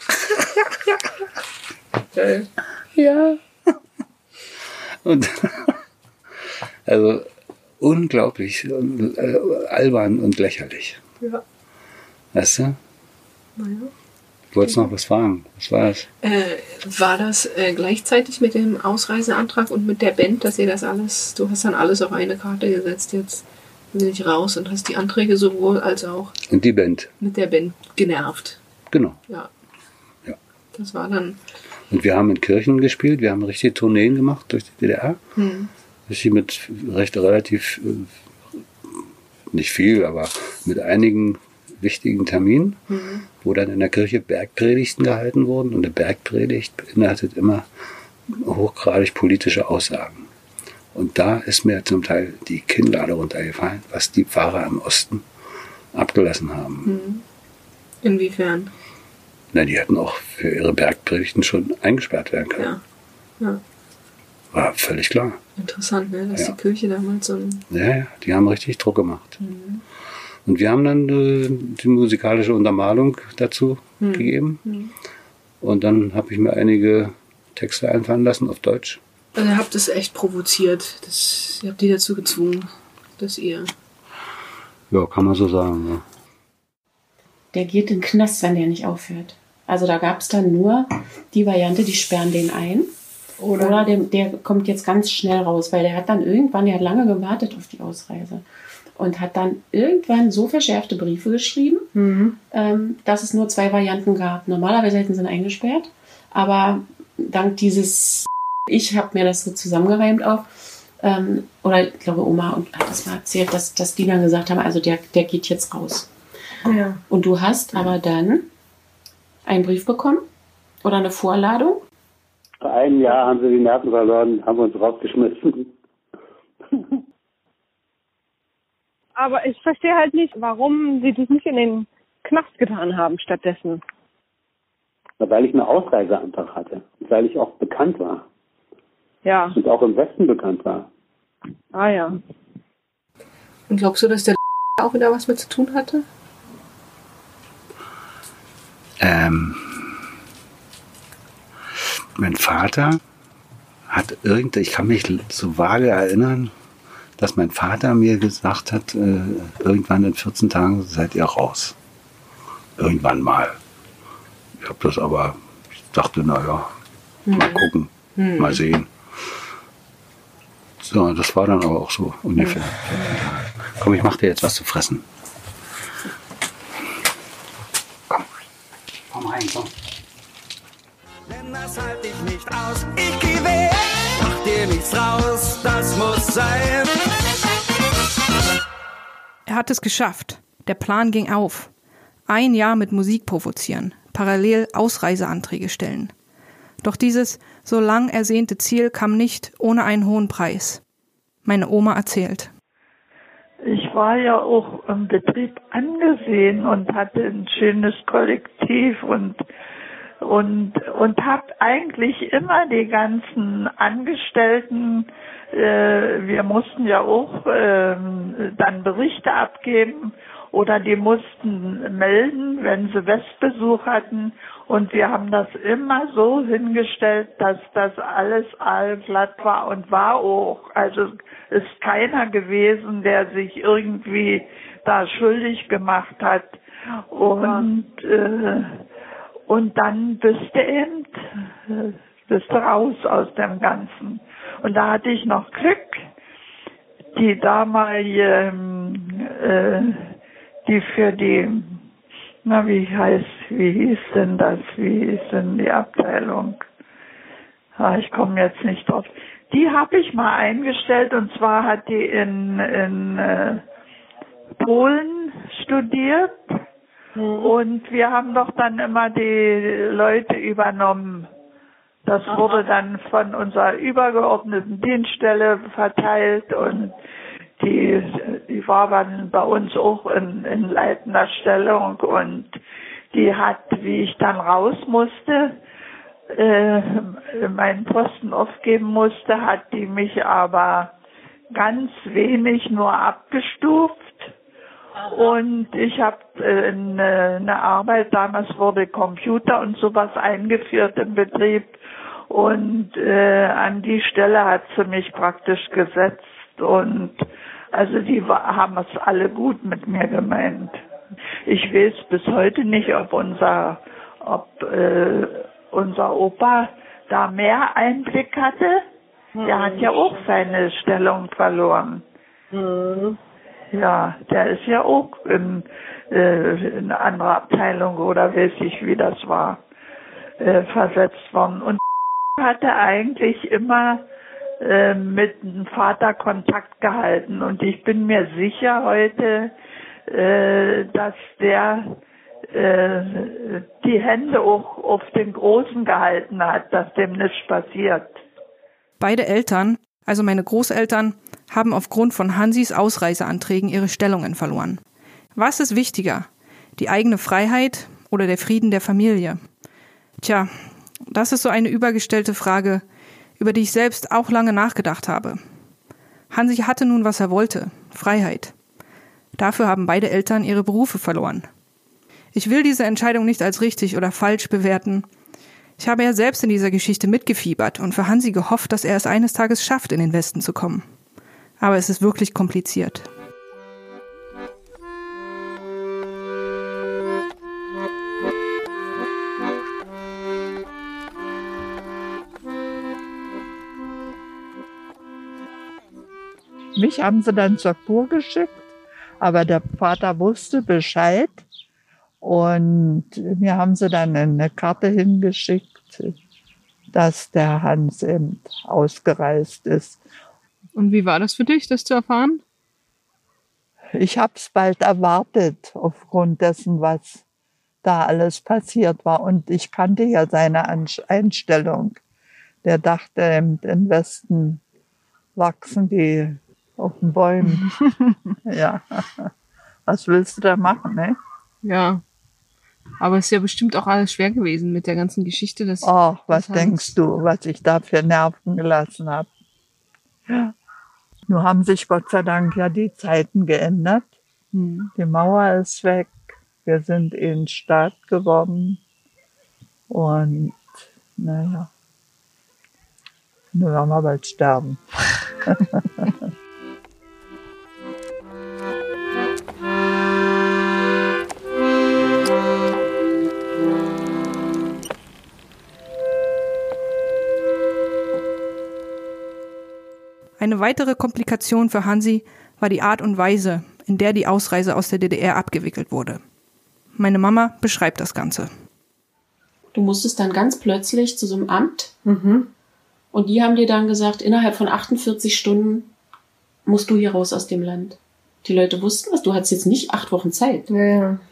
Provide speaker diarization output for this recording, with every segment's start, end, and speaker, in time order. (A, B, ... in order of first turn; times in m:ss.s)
0:02.1-0:03.4 A
0:05.0-0:05.8 B
0:06.9-0:07.3 B
0:07.8-0:11.0 B
0:12.3-0:12.8 B
0:13.6-0:13.9 A
0:14.5-0:16.1 B
0:16.2-0:26.3 A
0:26.5-0:27.1 B
0:27.2-0:28.6 A
0:28.9-0:29.2 B
0:30.8-0:31.4 A
0:31.9-0:35.2 B
0:35.4-0:35.7 A
0:36.1-0:38.1 B
0:39.5-0:42.8 B
0:42.9-0:43.2 A
0:43.3-0:47.7 B
0:48.3-0:50.3 B
0:50.9-0:55.2 B
0:55.9-0:56.9 B
0:56.8-0:57.2 A
0:58.0-0:58.7 A
0:59.5-1:02.7 B
1:04.5-1:05.4 B
1:05.6-1:07.6 A
1:07.7-1:09.4 B
1:09.4-1:09.8 A
1:10.5-1:14.6 B
1:14.0-1:14.9 A
1:15.6-1:19.0 B
1:19.4-1:23.7 A
1:24.9-1:26.0 B
1:27.5-1:32.9 C
1:33.4-1:33.9 A
1:33.6-1:38.4 C
1:39.0-1:41.9 C
1:42.0-1:42.4 A
1:42.5-1:50.5 C
1:51.0-1:56.1 C
1:56.7-1:57.0 A
1:57.1-1:58.5 C
1:59.4-2:00.3 C
2:00.8-2:01.8 C
2:02.6-2:05.7 D
2:09.2-2:13.8 E
2:15.2-2:18.2 D
2:19.2-2:19.6 E
2:19.5-2:20.9 D
2:21.7-2:22.2 E
2:23.7-2:26.0 A
2:29.0-2:29.9 B
2:32.2-2:33.0 B
2:33.9-2:36.5 B
2:37.2-2:41.8 B
2:42.8-2:43.6 B
2:44.6-2:45.4 B
2:45.9-2:46.7 B
2:47.3-2:47.6 A
2:47.3-2:48.9 B
2:48.2-2:48.6 A
2:50.8-2:55.0 B
2:59.1-2:59.7 B
3:01.3-3:06.9 F
3:09.5-3:11.7 G
3:12.3-3:16.1 G
3:16.8-3:20.8 G
3:21.4-3:22.5 G
3:23.6-3:29.4 H
3:30.2-3:56.6 H
3:57.1-3:58.8 H
3:59.5-4:06.0 H
4:07.2-4:11.8 H
4:12.4-4:16.6 H
4:17.8-4:23.6 H
4:24.6-4:26.4 H
4:27.2-4:27.5 E
4:27.4-4:31.3 H
4:32.1-4:36.9 H
4:32.3-4:32.6 E
4:37.6-4:42.6 H
4:43.1-4:45.6 H
4:46.3-4:50.9 H
4:51.5-4:54.3 H
4:55.1-5:01.8 H
5:02.3-5:10.8 H
5:11.5-5:18.8 H
5:19.4-5:20.3 E
5:19.4-5:22.0 H
5:22.5-5:23.2 E
5:23.7-5:29.6 H
5:30.4-5:31.8 H
5:32.4-5:34.0 H
5:34.6-5:39.5 H
5:40.1-5:42.0 H
5:42.5-5:48.2 H
5:49.0-5:54.8 G
5:55.4-5:59.4 G
6:00.2-6:00.5 G
6:01.1-6:02.8 G
6:03.4-6:05.4 G
6:06.3-6:08.5 G
6:09.4-6:11.5 G
6:12.4-6:15.1 G
6:15.8-6:20.8 G
6:21.6-6:23.1 G
6:36.8-6:38.7 I
6:39.2-6:41.4 I
6:42.2-6:46.2 I
6:46.9-6:50.0 I
6:50.8-6:52.4 A
6:54.0-6:57.2 I
6:57.8-7:02.0 I
7:02.6-7:04.6 I
7:05.4-7:07.7 I
7:08.4-7:09.3 I
7:09.9-7:11.2 I
7:11.6-7:12.0 A
7:13.0-7:17.0 A
7:15.8-7:19.3 I
7:20.3-7:20.6 I
7:21.3-7:24.1 I
7:24.5-7:24.9 A
7:25.0-7:28.8 I
7:29.9-7:30.6 I
7:31.2-7:31.7 I
7:33.5-7:34.8 I
7:35.4-7:36.3 I
7:50.4-7:56.2 G
7:57.0-7:58.5 G
7:59.7-8:01.9 C
8:02.0-8:02.5 A
8:03.1-8:05.9 C
8:06.7-8:10.7 C
8:10.7-8:11.2 A